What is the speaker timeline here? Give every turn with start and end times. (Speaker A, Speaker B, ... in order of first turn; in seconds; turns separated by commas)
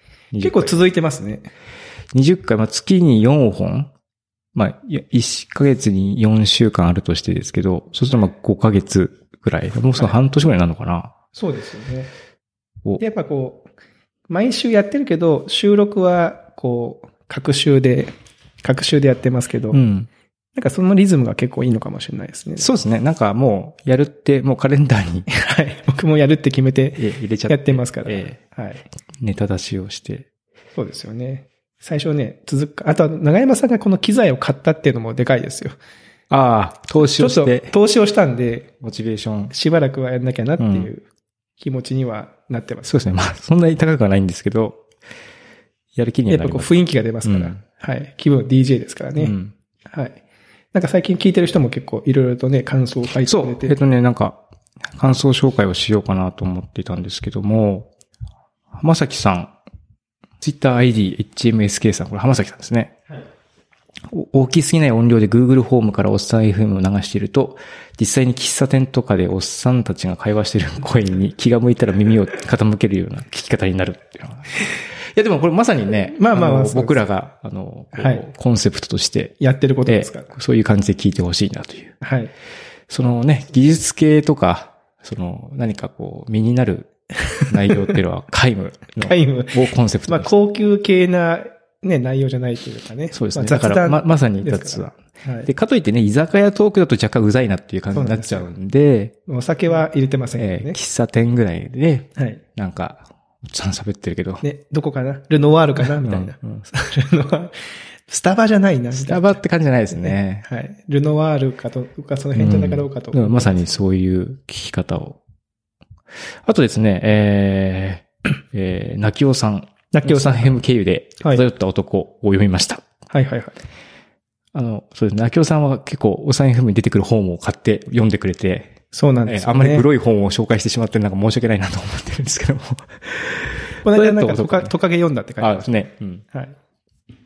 Speaker A: 0.3-0.8, Speaker B: 0.4-1.5, Speaker A: 2.1-3.9, Speaker A: 4.5-11.1, Speaker B: 11.3-12.1, Speaker B: 13.0-13.7, Speaker B: 14.3-18.1, Speaker B: 18.6-19.8, Speaker A: 19.7-20.1, Speaker B: 20.6-22.7, Speaker A: 22.6-25.3, Speaker B: 25.3-28.8, Speaker A: 27.0-28.4, Speaker A: 29.2-30.3, Speaker B: 30.8-35.7, Speaker A: 36.3-37.7, Speaker B: 37.0-38.7, Speaker A: 38.8-39.5, Speaker B: 39.5-41.0, Speaker A: 40.6-40.9, Speaker B: 41.6-42.9, Speaker A: 42.8-44.8, Speaker A: 45.9-46.7, Speaker B: 46.3-49.3, Speaker A: 47.2-47.6, Speaker A: 49.2-49.5, Speaker B: 49.9-50.2, Speaker B: 50.7-53.8, Speaker A: 53.2-57.9, Speaker A: 58.7-59.5, Speaker A: 60.4-63.0, Speaker A: 64.1-74.5, Speaker A: 75.1-82.0, Speaker B: 76.1-77.0, Speaker B: 78.0-78.2, Speaker B: 79.4-80.3, Speaker B: 82.0-82.3, Speaker A: 82.9-86.9, Speaker B: 87.3-88.0, Speaker A: 87.5-90.3, Speaker B: 89.0-95.5, Speaker A: 93.1-99.2, Speaker B: 97.9-98.5, Speaker B: 99.3-100.8, Speaker A: 100.4-104.4, Speaker B: 104.4-107.5, Speaker A: 105.8-106.6, Speaker B: 108.1-109.4, Speaker A: 108.9-110.5, Speaker B: 110.0-113.7, Speaker A: 112.3-115.2, Speaker A: 116.5-122.8, Speaker B: 119.9-120.5, Speaker B: 123.1-123.5, Speaker A: 124.5-128.7, Speaker B: 128.9-129.8, Speaker A: 129.2-134.7, Speaker B: 133.8-135.7, Speaker A: 135.4-136.2